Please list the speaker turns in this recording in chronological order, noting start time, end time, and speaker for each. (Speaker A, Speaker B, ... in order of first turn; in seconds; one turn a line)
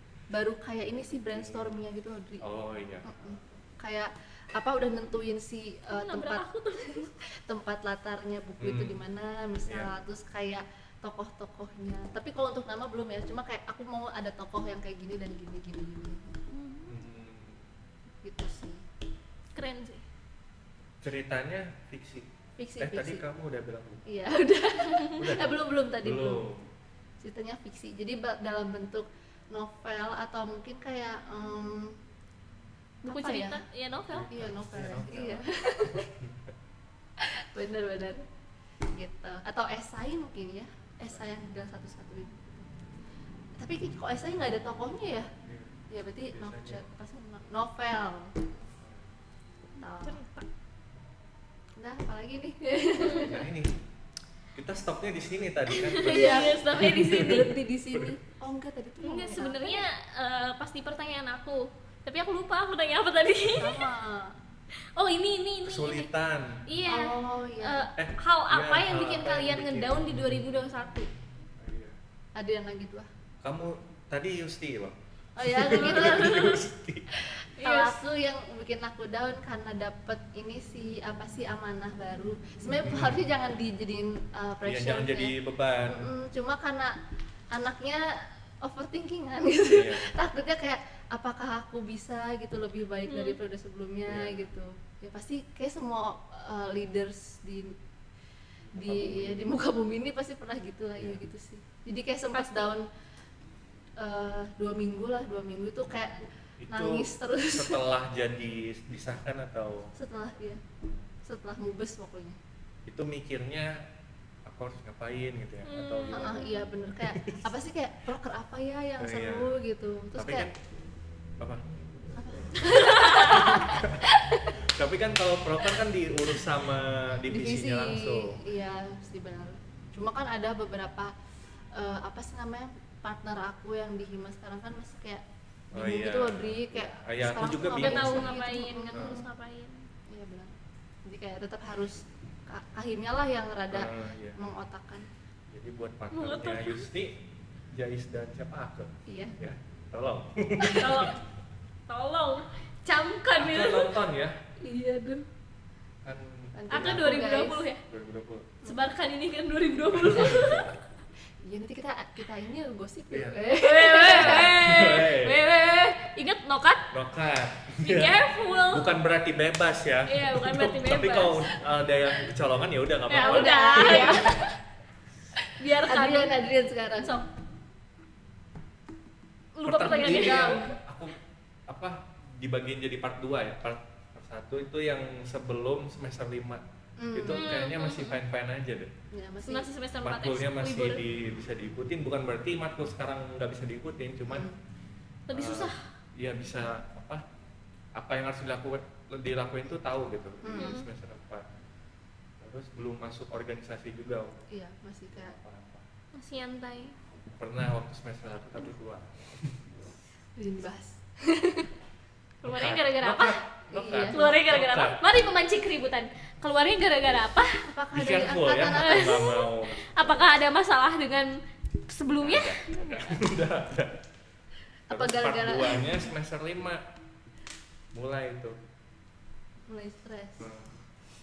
Speaker A: 0.3-2.5
Speaker B: 1.3-1.7
Speaker B: 2.4-3.1
Speaker A: 3.0-16.4
Speaker C: 5.9-7.1
Speaker B: 8.6-9.0
Speaker C: 16.5-16.9
Speaker B: 16.9-17.6
Speaker A: 18.2-18.8
Speaker C: 19.5-20.0
Speaker B: 21.0-24.1
Speaker A: 22.6-23.2
Speaker A: 24.1-26.4
Speaker B: 25.2-26.6
Speaker A: 27.2-32.0
Speaker C: 33.0-34.3
Speaker A: 33.1-33.6
Speaker B: 34.1-35.5
Speaker A: 34.3-36.1
Speaker B: 36.0-36.5
Speaker A: 37.2-38.2
Speaker A: 38.9-42.7
Speaker A: 43.6-45.3
Speaker B: 45.5-45.7
Speaker A: 45.9-48.4
Speaker B: 46.3-46.8
Speaker B: 48.7-49.1
Speaker A: 49.8-50.2
Speaker C: 50.0-50.5
Speaker A: 51.8-53.5
Speaker C: 53.0-53.4
Speaker B: 53.2-53.7
Speaker B: 54.5-58.1
Speaker C: 55.7-57.5
Speaker A: 56.0-59.9
Speaker C: 59.0-63.8
Speaker A: 63.5-64.4
Speaker C: 65.0-66.1
Speaker B: 65.6-66.7
Speaker C: 66.7-71.1
Speaker A: 66.9-67.9
Speaker B: 68.0-70.4
Speaker B: 71.6-72.0
Speaker A: 72.3-73.1
Speaker B: 73.4-77.1
Speaker A: 75.4-76.6
Speaker C: 75.7-76.5
Speaker A: 77.1-85.3
Speaker C: 77.6-78.0
Speaker B: 82.8-83.2
Speaker B: 84.6-86.1
Speaker A: 85.9-87.0
Speaker A: 87.5-97.8
Speaker B: 89.7-90.1
Speaker C: 93.1-93.4
Speaker B: 94.1-94.5
Speaker B: 98.7-99.5
Speaker A: 98.7-102.9
Speaker C: 102.3-102.7
Speaker A: 104.0-107.8
Speaker B: 106.6-109.9
Speaker A: 110.0-110.6
Speaker A: 111.2-112.4
Speaker B: 112.9-113.8
Speaker B: 114.5-116.5
Speaker C: 115.7-116.7
Speaker A: 116.1-120.5
Speaker B: 117.0-117.5
Speaker B: 119.0-119.5
Speaker B: 120.2-120.5
Speaker A: 122.2-124.6
Speaker C: 122.8-123.5
Speaker B: 123.3-124.0
Speaker B: 124.7-128.4
Speaker A: 127.3-131.1
Speaker A: 131.7-139.3
Speaker B: 135.7-138.3
Speaker C: 137.7-139.8
Speaker B: 138.9-139.2
Speaker A: 140.1-140.5
Speaker A: 141.1-145.1
Speaker B: 143.7-144.4
Speaker B: 145.5-151.1
Speaker C: 146.1-146.9
Speaker A: 149.1-149.4
Speaker C: 150.7-151.2
Speaker C: 151.9-154.0
Speaker B: 153.4-154.4
Speaker A: 154.6-155.3
Speaker B: 156.0-157.2
Speaker A: 156.6-157.7
Speaker C: 156.7-157.8
Speaker B: 157.9-158.5
Speaker C: 158.7-160.8
Speaker B: 159.9-160.6
Speaker A: 161.4-164.6
Speaker B: 163.1-163.4
Speaker C: 163.6-166.9
Speaker B: 164.1-165.4
Speaker B: 166.9-174.4
Speaker C: 167.8-168.9
Speaker C: 170.1-171.5
Speaker C: 173.1-174.5
Speaker A: 173.2-174.5
Speaker A: 175.4-177.2
Speaker C: 175.6-176.4
Speaker C: 179.6-180.7
Speaker B: 179.7-181.2
Speaker A: 180.0-180.6
Speaker B: 181.7-188.9
Speaker A: 187.0-187.6
Speaker C: 187.3-188.2
Speaker A: 189.1-189.7
Speaker C: 189.4-191.0
Speaker B: 190.0-194.5
Speaker A: 194.3-194.6
Speaker C: 195.3-195.8
Speaker B: 195.3-197.2
Speaker B: 197.9-201.4
Speaker A: 200.4-200.8
Speaker C: 200.6-200.8
Speaker B: 202.4-204.4
Speaker A: 204.5-205.3
Speaker B: 205.1-205.8
Speaker C: 206.2-207.0
Speaker B: 207.3-209.6
Speaker A: 210.4-211.7
Speaker C: 212.4-213.4
Speaker B: 212.4-215.0
Speaker A: 213.7-214.2
Speaker C: 214.1-217.7
Speaker A: 217.7-219.3
Speaker B: 217.9-220.3
Speaker C: 218.8-223.0
Speaker B: 222.2-224.0
Speaker A: 224.9-226.0
Speaker B: 224.9-226.8
Speaker B: 227.9-228.6
Speaker A: 229.7-230.5
Speaker B: 230.4-230.8